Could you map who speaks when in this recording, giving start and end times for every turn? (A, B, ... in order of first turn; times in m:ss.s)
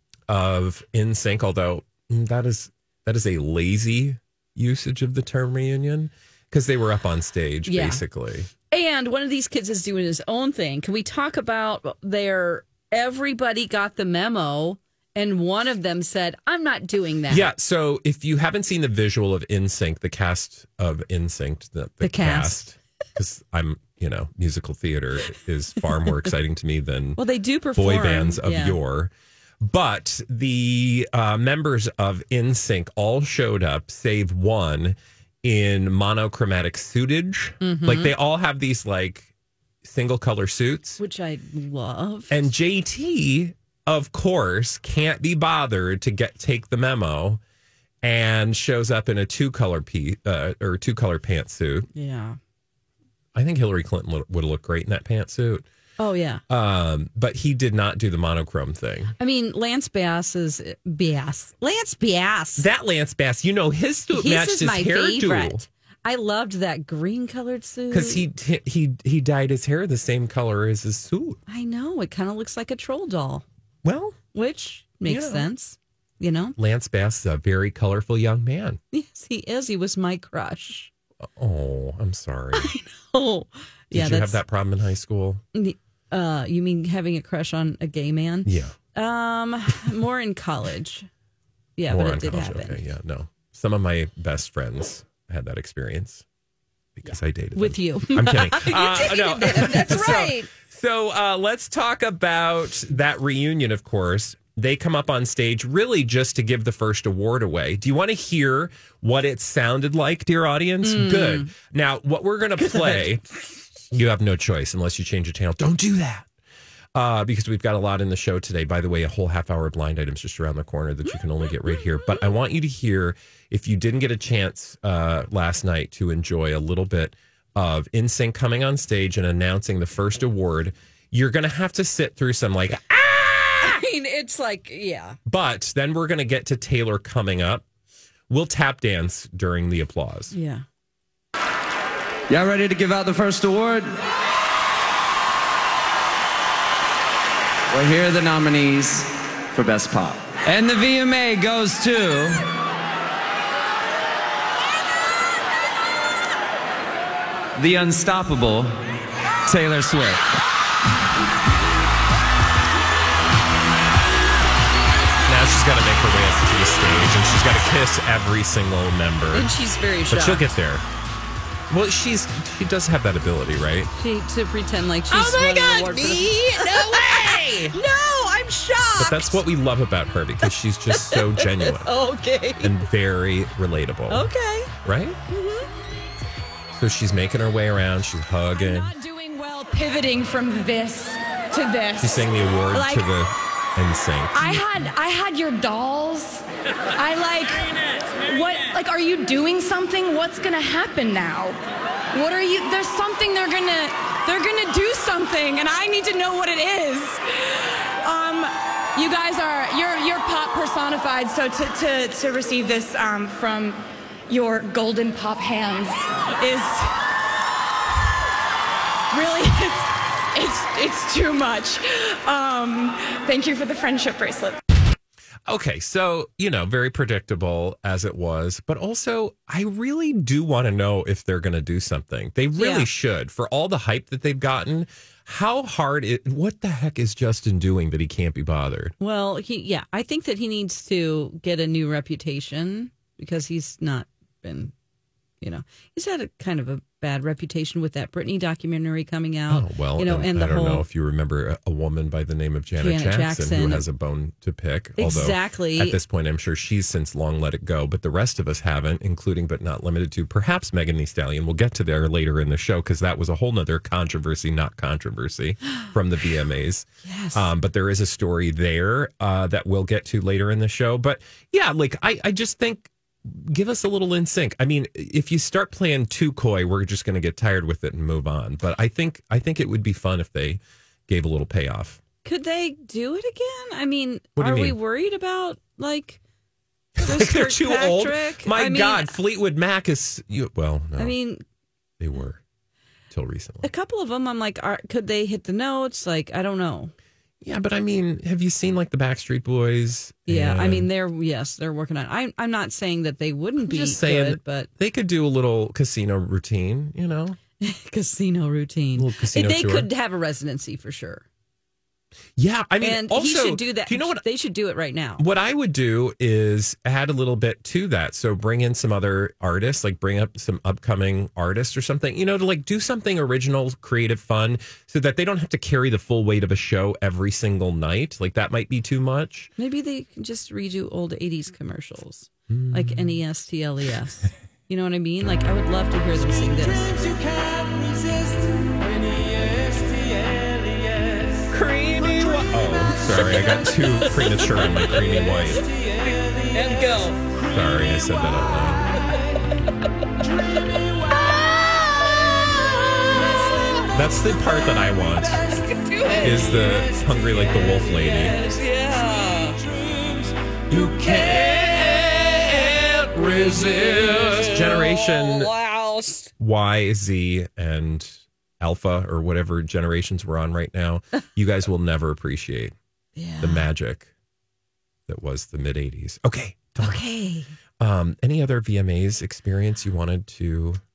0:00.3-0:08.5 A
0:07.7-0:08.0 B
0:08.7-0:17.5 B
0:17.3-0:27.2 A
0:22.0-0:22.6 B
0:27.2-0:28.8 B
0:27.8-0:29.1 A
0:29.6-0:39.3 A
0:37.6-0:38.1 B
0:39.8-0:41.0 A
0:41.0-0:42.5 B
0:42.3-0:47.4 A
0:48.0-0:51.9 A
0:51.9-0:52.4 B
0:53.3-0:55.6 A
0:56.0-0:56.4 B
0:56.5-0:59.1 A
0:59.2-1:02.7 B
1:02.6-1:05.6 A
1:04.1-1:08.2 B
1:07.9-1:11.4 A
1:11.5-1:13.4 B
1:13.8-1:14.2 A
1:14.3-1:16.5 B
1:15.0-1:15.5 A
1:16.6-1:18.8 A
1:18.9-1:20.9 B
1:21.2-1:22.7 A
1:22.5-1:24.4 B
1:23.9-1:25.4 A
1:25.5-1:31.1 B
1:28.4-1:28.8 A
1:31.8-1:32.8 B
1:31.9-1:36.2 A
1:37.0-1:53.2 A
1:37.6-1:40.5 B
1:50.8-1:51.5 B
1:52.6-1:53.0 B
1:53.9-1:56.3 A
1:56.9-2:13.8 A
2:01.7-2:02.3 B
2:13.6-2:15.2 B
2:15.2-2:17.6 A
2:18.3-2:20.3 A
2:20.3-2:20.6 B
2:22.3-2:23.9 C
2:27.7-2:32.4 C
2:37.5-2:38.9 C
2:39.4-2:40.2 C
2:45.2-2:49.5 A
2:49.3-2:50.5 B
2:50.1-2:50.8 A
2:51.7-2:53.9 A
2:54.0-2:59.4 B
2:55.1-2:57.8 A
2:59.0-3:01.9 A
3:00.9-3:02.7 B
3:02.6-3:04.3 A
3:04.1-3:04.7 B
3:04.8-3:05.2 A
3:05.3-3:05.7 B
3:06.7-3:08.9 A
3:09.0-3:12.9 D
3:12.0-3:14.6 A
3:14.3-3:21.6 D
3:22.1-3:36.9 D
3:39.1-3:44.6 D
3:45.5-3:58.9 A
3:52.6-3:52.9 B
3:59.0-4:04.7 B
4:05.4-4:10.8 B
4:09.5-4:42.0 A
4:12.8-4:13.8 B
4:15.0-4:16.0 B
4:27.0-4:27.5 B
4:42.2-4:46.2 B
4:44.4-4:44.8 A
4:47.0-4:51.2 A
4:47.0-4:49.2 B
4:51.0-4:51.4 B
4:52.0-4:52.4 A
4:53.1-4:53.7 A
4:53.6-4:56.9 B
4:57.4-5:00.9 A
5:00.3-5:04.7 B
5:03.6-5:07.4 A
5:07.6-5:11.2 B
5:09.0-5:09.9 A
5:12.4-5:14.2 A
5:12.8-5:15.2 B
5:15.2-5:29.5 A
5:29.6-5:37.2 B
5:32.5-5:33.2 A
5:41.5-5:42.5 B
5:42.1-5:45.7 A
5:43.0-5:45.0 B
5:46.4-5:47.2 B
5:47.4-5:49.0 A
5:51.0-5:53.9 B
5:53.9-5:55.5 A
5:55.4-5:56.9 B
5:56.2-5:58.4 A
5:57.8-5:59.6 B
6:00.7-6:05.5 A
6:00.8-6:02.0 B
6:03.2-6:06.3 B
6:06.4-6:12.7 A
6:13.2-6:13.7 B
6:13.4-6:14.1 A
6:15.1-6:17.0 A
6:16.8-6:17.5 B
6:17.8-6:20.8 A